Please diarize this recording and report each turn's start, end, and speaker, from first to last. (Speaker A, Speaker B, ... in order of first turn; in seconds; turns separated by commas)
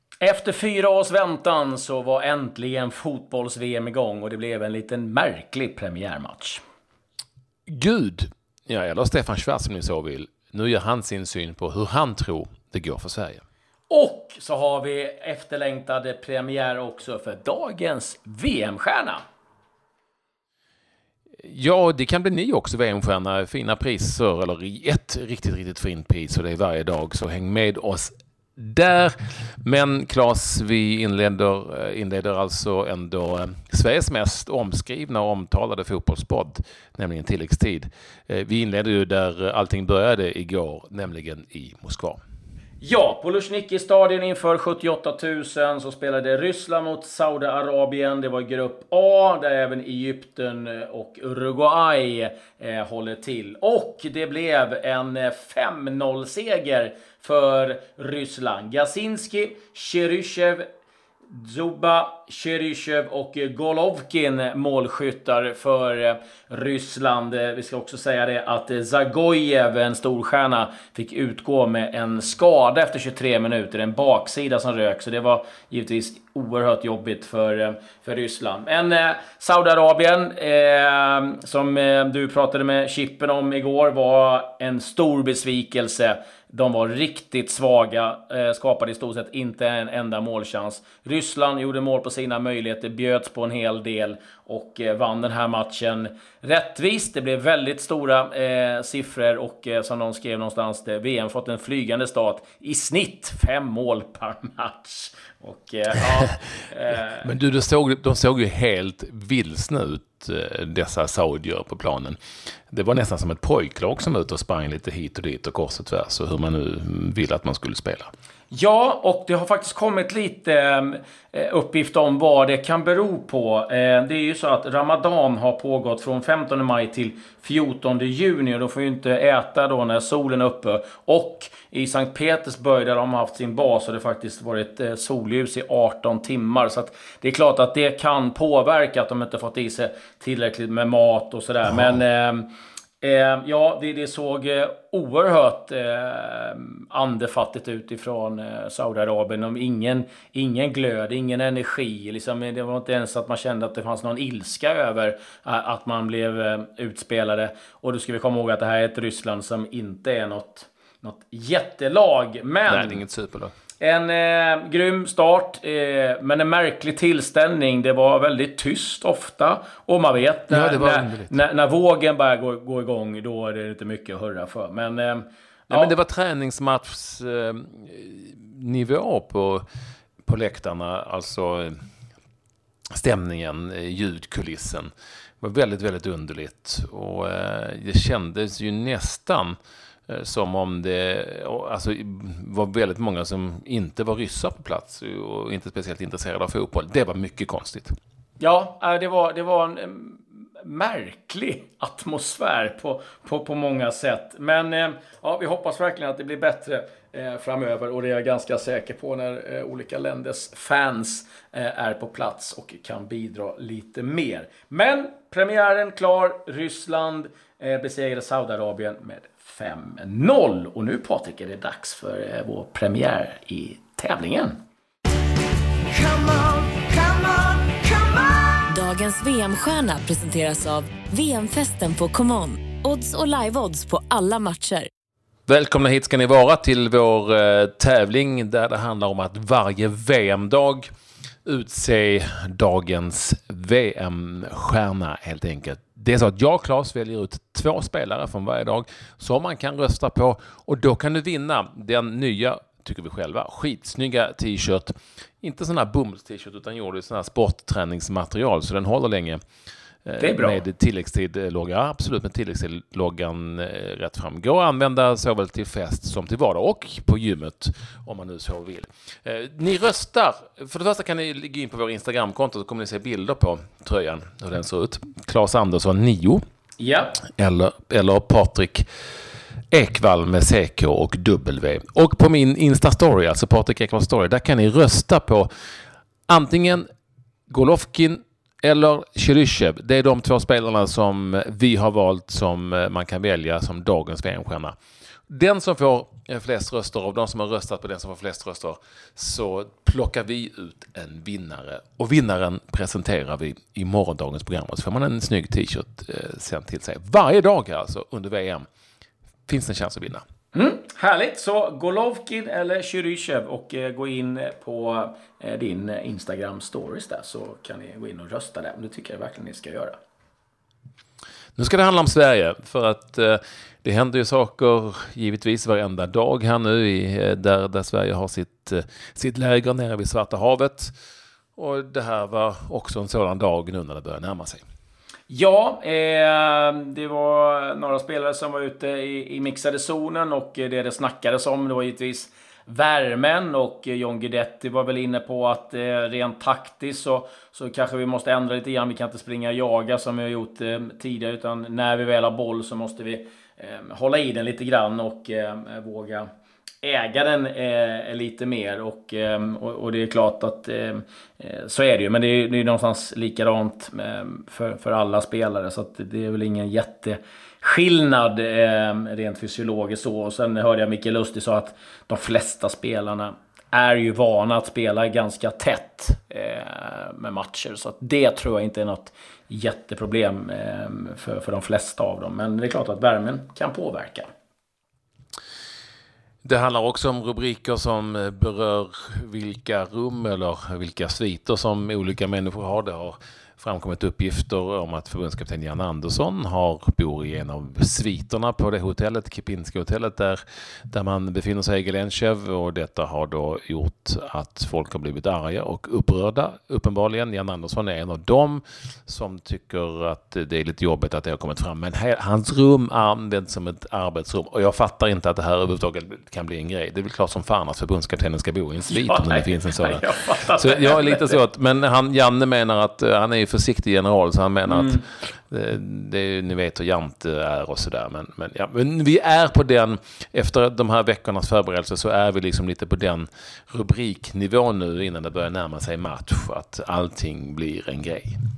Speaker A: 0.2-6.6, Speaker B: 7.7-13.4, Speaker A: 13.9-19.2, Speaker B: 21.4-42.2, Speaker A: 42.8-60.6, Speaker A: 61.3-107.3, Speaker B: 107.2-112.2, Speaker B: 112.7-118.1, Speaker A: 118.5-142.5, Speaker A: 143.0-163.0, Speaker B: 162.7-163.5, Speaker A: 163.8-175.9, Speaker B: 170.5-171.4, Speaker B: 175.7-179.6, Speaker B: 180.2-181.8, Speaker B: 182.9-184.9, Speaker B: 185.4-189.6, Speaker B: 190.1-197.9, Speaker A: 198.4-224.6, Speaker A: 225.9-228.3, Speaker C: 228.7-234.9, Speaker B: 235.5-240.9, Speaker B: 241.4-259.4, Speaker B: 260.1-276.4, Speaker A: 260.2-260.6, Speaker A: 276.8-277.2, Speaker B: 277.4-278.8, Speaker B: 279.7-285.5, Speaker B: 286.3-286.9, Speaker B: 287.5-294.7, Speaker B: 295.3-308.6, Speaker B: 309.5-310.2, Speaker A: 310.5-320.0, Speaker B: 321.6-330.9, Speaker B: 331.6-334.6, Speaker A: 335.3-356.3, Speaker A: 356.8-384.3, Speaker B: 386.4-438.4, Speaker A: 418.9-421.4, Speaker A: 424.7-425.0